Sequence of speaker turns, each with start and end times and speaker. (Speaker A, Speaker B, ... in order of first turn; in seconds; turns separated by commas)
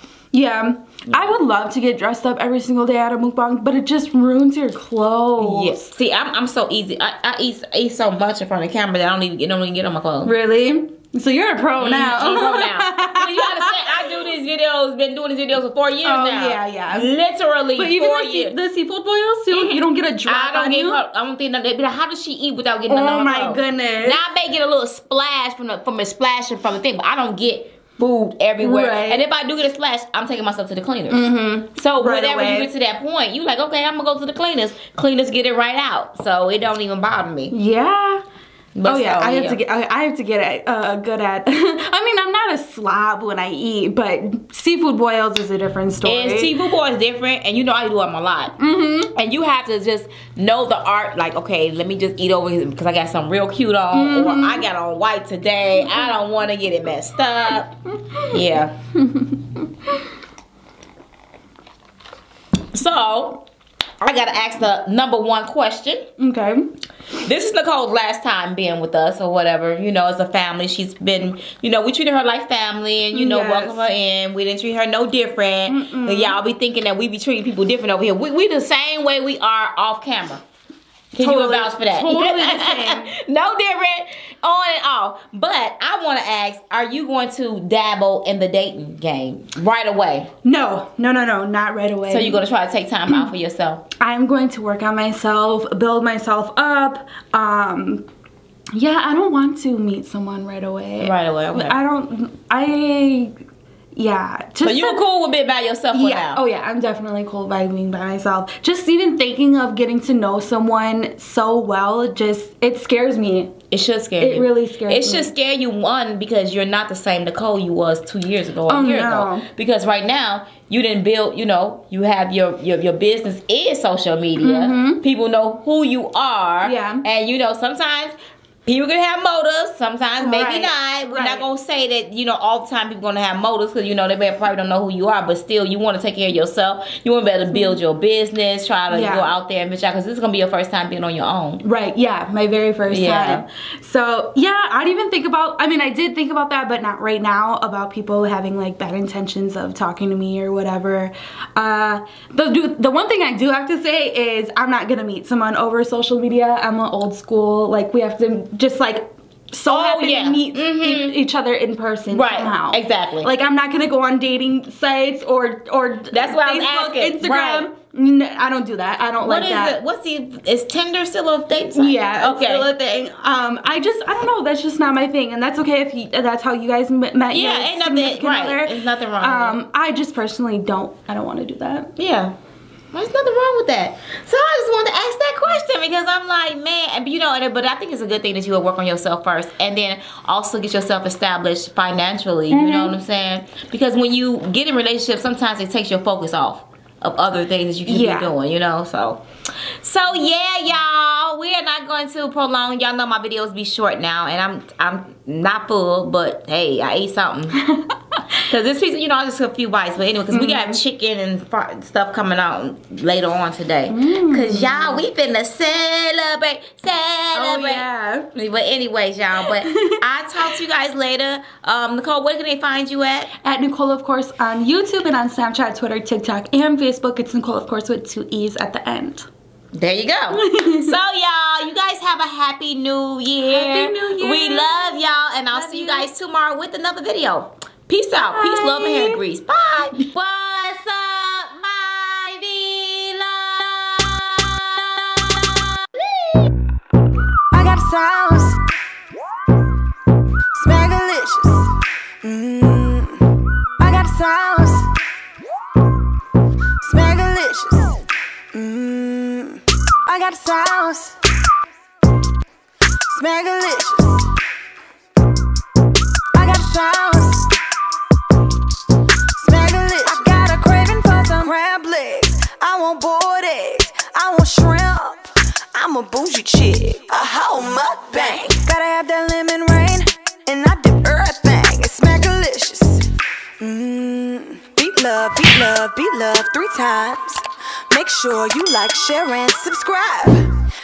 Speaker A: 0.3-5.9, Speaker B: 5.4-10.3, Speaker A: 10.2-13.9, Speaker B: 11.8-18.6, Speaker A: 16.0-17.1, Speaker A: 17.8-21.0, Speaker B: 19.5-37.5, Speaker A: 22.9-24.2, Speaker A: 28.6-29.2, Speaker A: 31.1-32.7, Speaker A: 37.5-38.2, Speaker B: 38.8-39.6, Speaker A: 38.9-46.5, Speaker B: 46.0-48.5, Speaker A: 48.6-49.1, Speaker B: 49.1-58.7, Speaker A: 53.9-54.7, Speaker A: 59.0-60.0, Speaker B: 62.7-63.4, Speaker B: 64.0-66.0, Speaker A: 66.2-66.7, Speaker B: 67.2-80.4, Speaker A: 73.1-73.8, Speaker A: 75.7-76.4, Speaker B: 81.2-90.3, Speaker A: 81.2-83.1, Speaker A: 90.4-92.4, Speaker B: 92.1-93.8, Speaker A: 94.0-98.0, Speaker A: 98.8-103.3, Speaker B: 101.0-101.8, Speaker A: 104.0-105.0, Speaker B: 104.6-106.4, Speaker A: 105.9-113.5, Speaker B: 113.7-141.6, Speaker A: 114.2-115.3, Speaker A: 118.7-119.5, Speaker A: 124.4-125.0, Speaker A: 126.6-127.0, Speaker A: 130.2-131.5, Speaker A: 137.5-137.8, Speaker A: 138.9-139.3, Speaker A: 141.6-169.8, Speaker B: 142.9-143.4, Speaker B: 159.7-161.2, Speaker B: 162.1-163.3, Speaker B: 166.1-167.7, Speaker B: 169.2-172.7, Speaker A: 171.8-181.9, Speaker B: 177.3-179.6, Speaker B: 182.0-182.3, Speaker B: 182.9-199.2, Speaker A: 192.5-192.9, Speaker A: 197.9-198.3, Speaker B: 199.8-207.6, Speaker A: 207.6-208.2, Speaker B: 208.5-223.3, Speaker A: 210.3-210.8, Speaker A: 213.9-215.0, Speaker A: 217.3-218.3, Speaker A: 219.4-220.0, Speaker A: 223.4-229.3, Speaker B: 229.7-245.6, Speaker A: 230.3-231.0, Speaker A: 233.4-236.1, Speaker A: 238.2-239.2, Speaker C: 247.5-248.6, Speaker C: 250.5-254.9, Speaker C: 256.8-261.2, Speaker C: 263.1-264.3, Speaker C: 266.3-267.5, Speaker C: 269.4-283.1, Speaker C: 283.6-290.5